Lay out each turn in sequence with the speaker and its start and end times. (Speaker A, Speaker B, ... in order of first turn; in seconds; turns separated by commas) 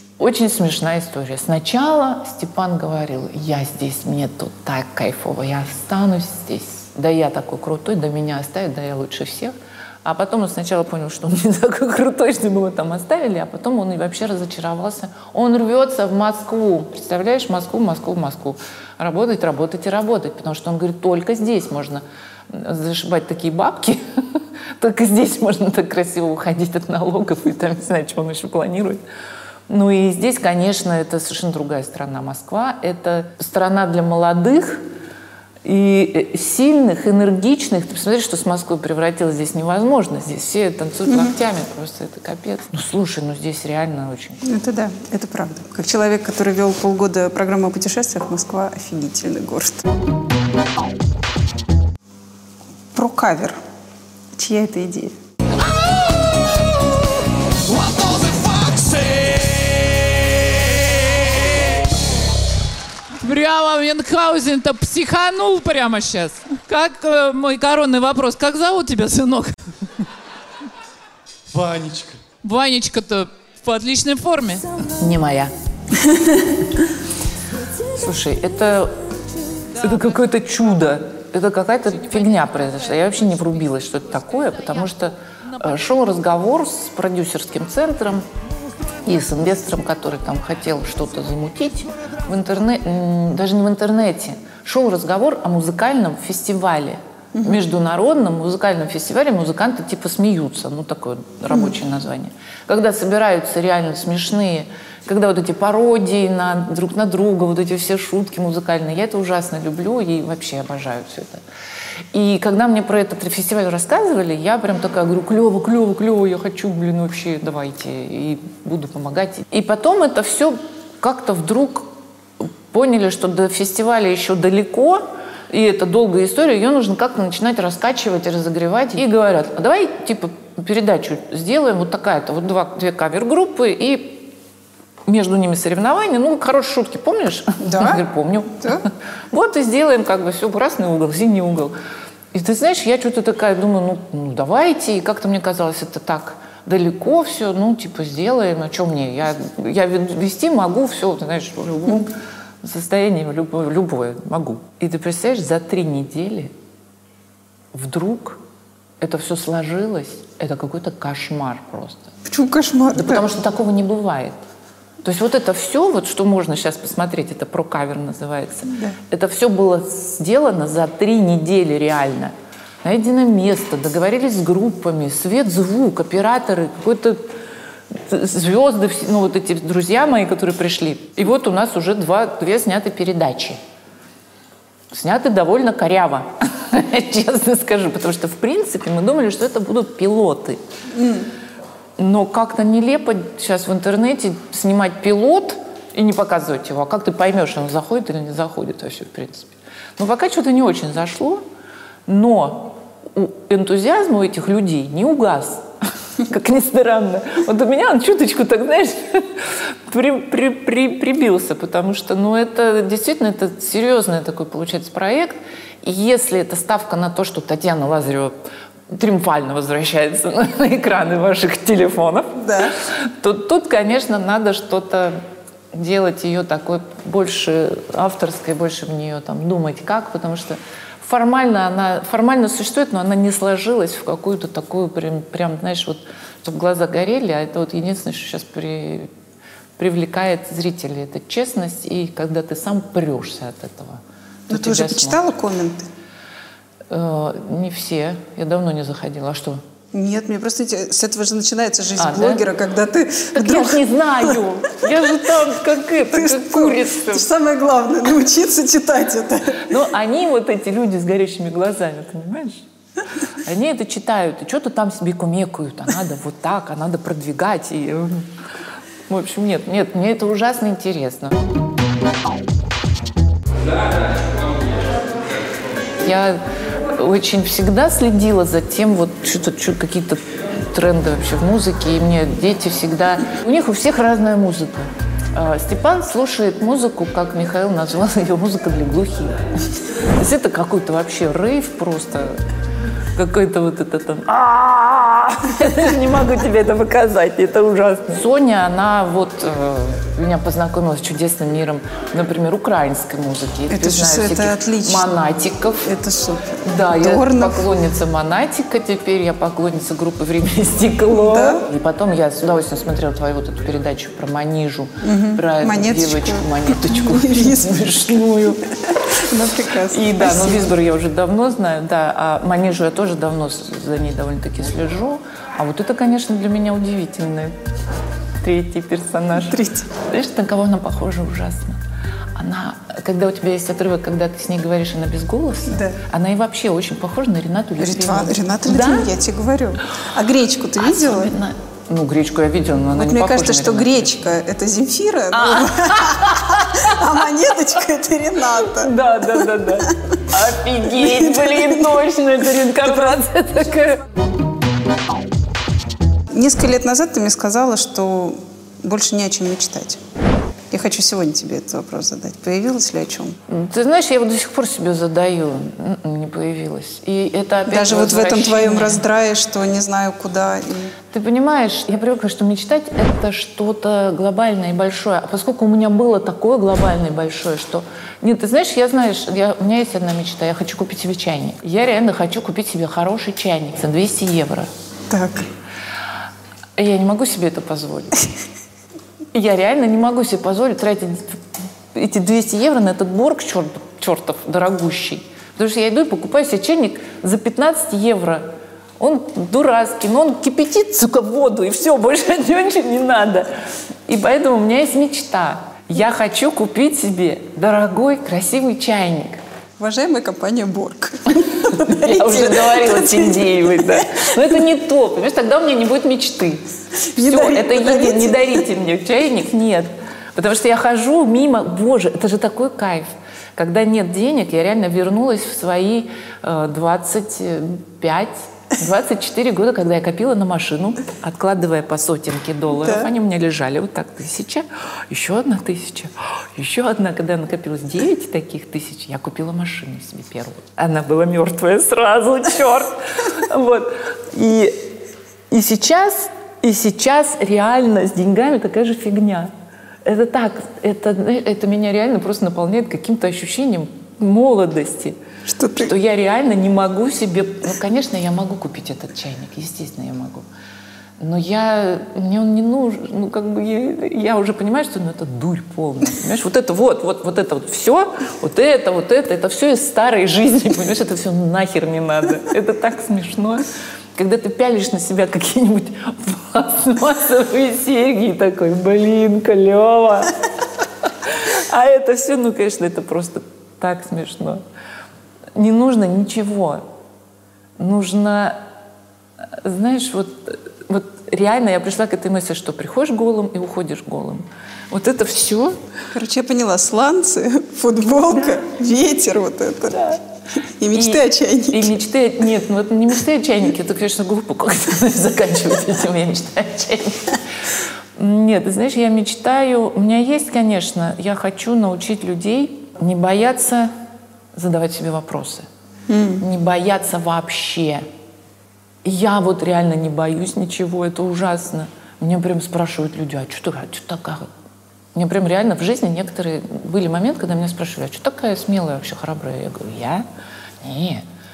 Speaker A: 0.2-29.0, Speaker A: 29.7-34.9, Speaker A: 35.6-44.4, Speaker B: 44.4-49.8, Speaker B: 52.9-53.6, Speaker B: 54.4-55.1, Speaker C: 57.6-60.1, Speaker C: 63.2-69.6, Speaker C: 71.5-74.7, Speaker A: 74.8-75.5, Speaker A: 78.0-78.9, Speaker A: 79.8-88.3, Speaker A: 89.0-111.4, Speaker B: 97.3-97.6, Speaker A: 112.1-134.3, Speaker A: 135.1-141.7, Speaker B: 137.6-138.0, Speaker A: 142.3-156.5, Speaker A: 157.7-158.4, Speaker A: 159.0-162.1, Speaker B: 162.2-163.2, Speaker A: 162.9-164.4, Speaker A: 165.0-177.3, Speaker B: 168.7-168.9, Speaker A: 177.9-183.6, Speaker A: 184.9-190.6, Speaker B: 190.9-191.3, Speaker A: 192.0-201.4, Speaker A: 202.1-205.7, Speaker A: 206.2-218.3, Speaker A: 218.9-225.2, Speaker B: 222.4-222.7, Speaker A: 225.7-239.1, Speaker A: 239.8-245.2, Speaker B: 244.5-245.9, Speaker A: 246.9-249.6, Speaker B: 249.9-253.8, Speaker A: 252.0-252.5, Speaker A: 253.3-257.3, Speaker B: 256.1-259.7, Speaker A: 259.6-262.6, Speaker A: 263.4-268.3, Speaker A: 269.1-271.4, Speaker A: 276.0-276.4, Speaker A: 276.9-289.4, Speaker A: 290.0-292.4, Speaker A: 293.1-305.8, Speaker B: 303.7-305.1, Speaker B: 305.8-307.7, Speaker A: 306.6-318.6, Speaker B: 311.1-311.6, Speaker B: 315.0-317.8, Speaker B: 319.1-320.7, Speaker A: 319.9-327.6, Speaker A: 328.4-331.8, Speaker B: 329.4-329.9, Speaker A: 332.4-339.1, Speaker B: 335.7-336.0, Speaker B: 337.8-341.3, Speaker A: 340.8-344.2, Speaker B: 342.9-348.9, Speaker A: 345.3-347.1, Speaker A: 348.6-354.0, Speaker B: 350.9-351.9, Speaker B: 356.3-360.0, Speaker B: 360.7-363.4, Speaker A: 363.5-369.0, Speaker B: 367.7-370.9, Speaker A: 371.1-384.7, Speaker B: 385.1-385.4, Speaker A: 386.8-388.2, Speaker A: 389.3-391.4, Speaker A: 391.9-398.5, Speaker A: 399.0-403.5, Speaker A: 404.1-409.4, Speaker B: 409.8-414.3, Speaker A: 411.7-444.8, Speaker B: 417.1-418.5, Speaker A: 445.5-449.5, Speaker A: 450.0-455.2, Speaker B: 455.5-455.9, Speaker A: 455.8-460.4, Speaker A: 461.2-484.6, Speaker A: 485.5-486.8, Speaker A: 487.8-488.6, Speaker A: 489.5-495.8, Speaker B: 496.1-500.2, Speaker A: 499.9-500.2, Speaker B: 500.8-501.9, Speaker A: 500.9-507.4, Speaker A: 508.1-513.9, Speaker A: 514.5-515.7, Speaker B: 516.1-516.4, Speaker A: 516.4-518.1, Speaker A: 519.0-524.5, Speaker A: 525.1-530.3, Speaker A: 530.8-531.2